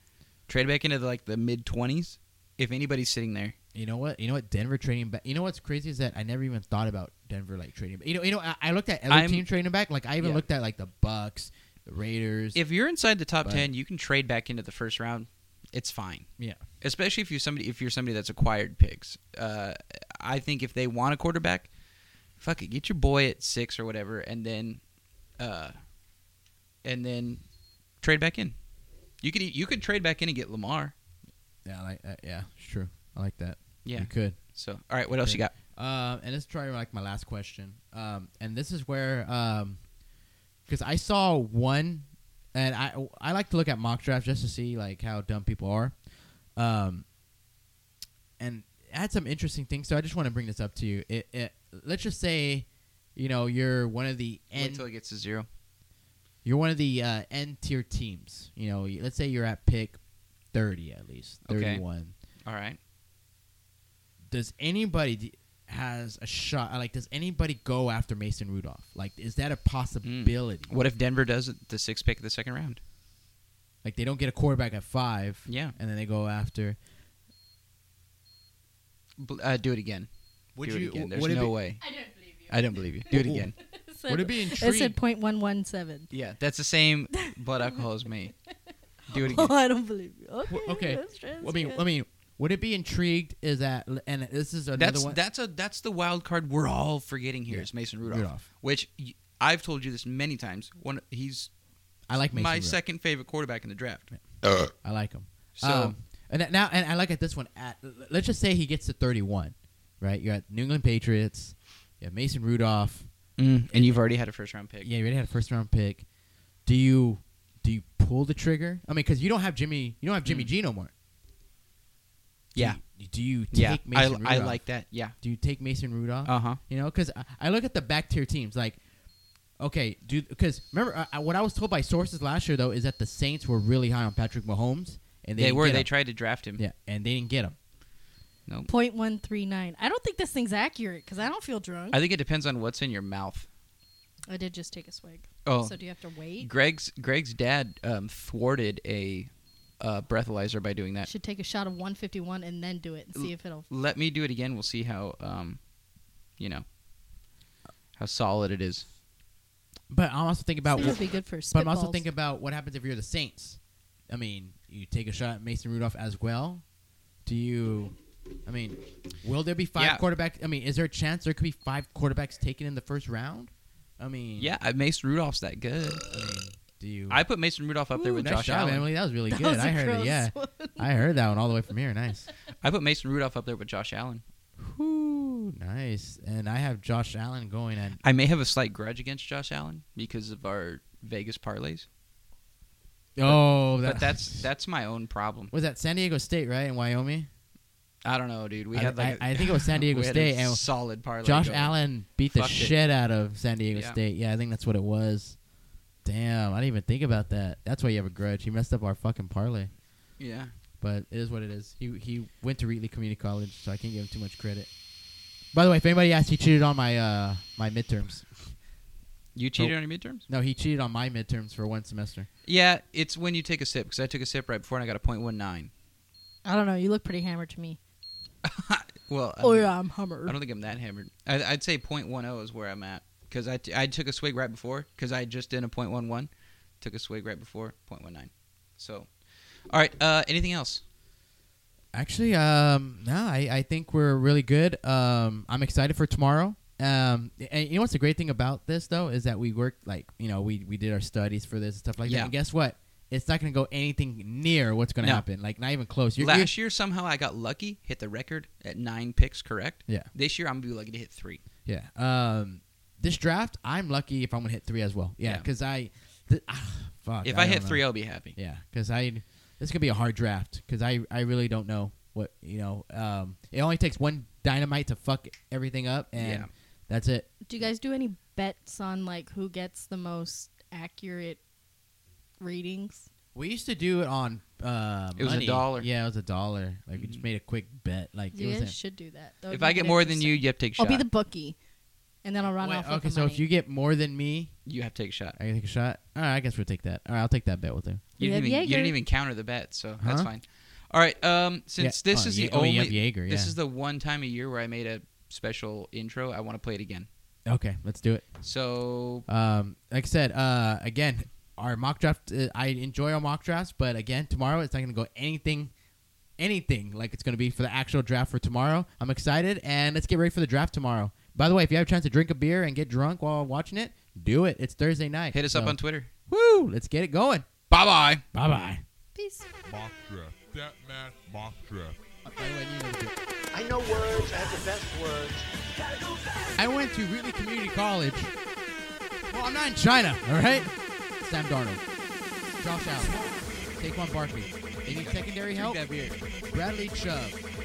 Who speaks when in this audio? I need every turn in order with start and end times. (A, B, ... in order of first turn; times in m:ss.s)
0:00.5-0:03.5 A
0:03.7-0:12.6 B
0:09.1-0:09.4 A
0:10.2-0:10.4 A
0:12.5-0:16.3 A
0:13.4-0:13.7 B
0:16.8-0:21.7 A
0:22.4-0:24.8 A
0:25.4-0:25.8 A
0:26.8-0:27.4 A
0:28.0-0:28.5 A
0:29.2-0:30.9 A
0:31.6-0:34.4 B
0:33.8-0:35.5 A
0:35.2-0:39.8 B
0:40.7-0:45.9 B
0:46.6-0:47.0 B
0:48.4-0:54.8 B
0:54.5-0:55.5 A
0:56.4-1:00.0 B
1:00.5-1:02.1 B
1:01.4-1:01.8 A
1:02.4-1:02.8 A
1:04.3-1:10.7 B
1:10.0-1:12.8 A
1:13.8-1:16.8 B
1:15.4-1:15.7 A
1:19.2-1:20.1 A
1:20.5-1:21.6 B
1:20.6-1:21.8 A
1:21.8-1:22.5 C
1:22.5-1:23.6 A
1:23.1-1:23.5 B
1:23.7-1:26.1 C
1:24.1-1:25.0 B
1:26.1-1:28.3 A
1:29.1-1:29.6 A
1:29.1-1:31.8 C
1:30.5-1:35.2 B
1:34.8-1:41.5 A
1:37.5-1:38.4 B
1:42.1-1:42.8 B
1:42.3-1:44.1 A
1:44.1-1:53.1 B
1:45.6-1:45.9 A
1:53.4-1:54.9 A
1:53.7-1:54.0 B
1:54.8-1:56.0 B
1:56.6-2:00.9 B
2:00.2-2:00.5 A
2:02.5-2:04.6 B
2:03.5-2:05.1 A
2:05.2-2:08.8 B
2:06.2-2:06.6 A
2:09.6-2:15.9 B
2:15.4-2:16.6 A
2:16.6-2:17.6 B
2:18.7-2:22.0 C
2:21.9-2:23.5 A
2:24.3-2:26.5 C
2:25.4-2:25.7 A
2:26.4-2:31.1 A
2:31.0-2:33.7 C
2:33.1-2:35.6 A
2:36.4-2:36.6 A
2:38.0-2:38.8 A
2:39.9-2:46.6 B
2:40.6-2:42.0 C
2:47.2-2:54.5 B
2:49.8-2:50.0 A
2:54.4-2:56.1 A
2:56.1-2:57.2 B
2:57.1-2:58.9 A
2:58.0-3:02.3 B
2:59.3-3:01.0 C
3:02.6-3:04.2 A
3:04.6-3:08.0 B
3:08.0-3:11.9 A
3:13.2-3:14.4 B
3:13.2-3:15.5 A
3:15.5-3:17.3 B
3:18.0-3:22.7 A
3:18.7-3:20.6 B
3:21.1-3:25.4 B
3:26.0-3:29.7 B
3:30.2-3:30.5 A
3:30.8-3:34.7 B
3:35.5-3:38.5 B
3:39.3-3:40.2 A
3:40.3-3:42.3 B
3:42.4-3:45.7 A
3:46.4-3:47.8 C
3:48.4-3:59.1 A
3:49.4-3:50.3 C
3:59.7-4:00.8 A
4:01.9-4:16.5 B
4:12.0-4:12.3 A
4:16.2-4:21.4 A
4:21.6-4:37.3 B
4:27.2-4:28.3 A
4:36.2-4:36.5 A
4:37.4-4:41.4 C
4:42.4-4:43.1 C
4:43.3-4:48.8 B
4:45.2-4:45.9 A
4:47.0-4:47.2 A
4:48.3-4:51.6 C
4:49.5-4:51.0 A
4:52.2-4:53.4 C
4:52.6-4:54.6 B
4:54.6-4:55.4 A
4:55.4-4:58.0 B
4:58.2-5:07.1 A
4:58.2-4:59.0 C
5:00.0-5:00.3 B
5:01.8-5:03.5 B
5:07.5-5:08.2 B
5:08.4-5:09.2 A
5:09.3-5:15.7 B
5:16.4-5:27.5 B
5:25.3-5:26.1 A
5:27.7-5:28.2 A
5:28.3-5:28.8 B
5:29.1-5:29.5 C
5:29.6-5:32.0 D
5:32.2-5:33.2 B
5:33.5-5:35.5 E
5:36.6-5:38.3 B
5:39.3-5:41.8 B
5:42.5-5:43.2 B
5:43.8-5:46.0 B
5:44.9-5:46.2 A
5:46.5-5:47.4 B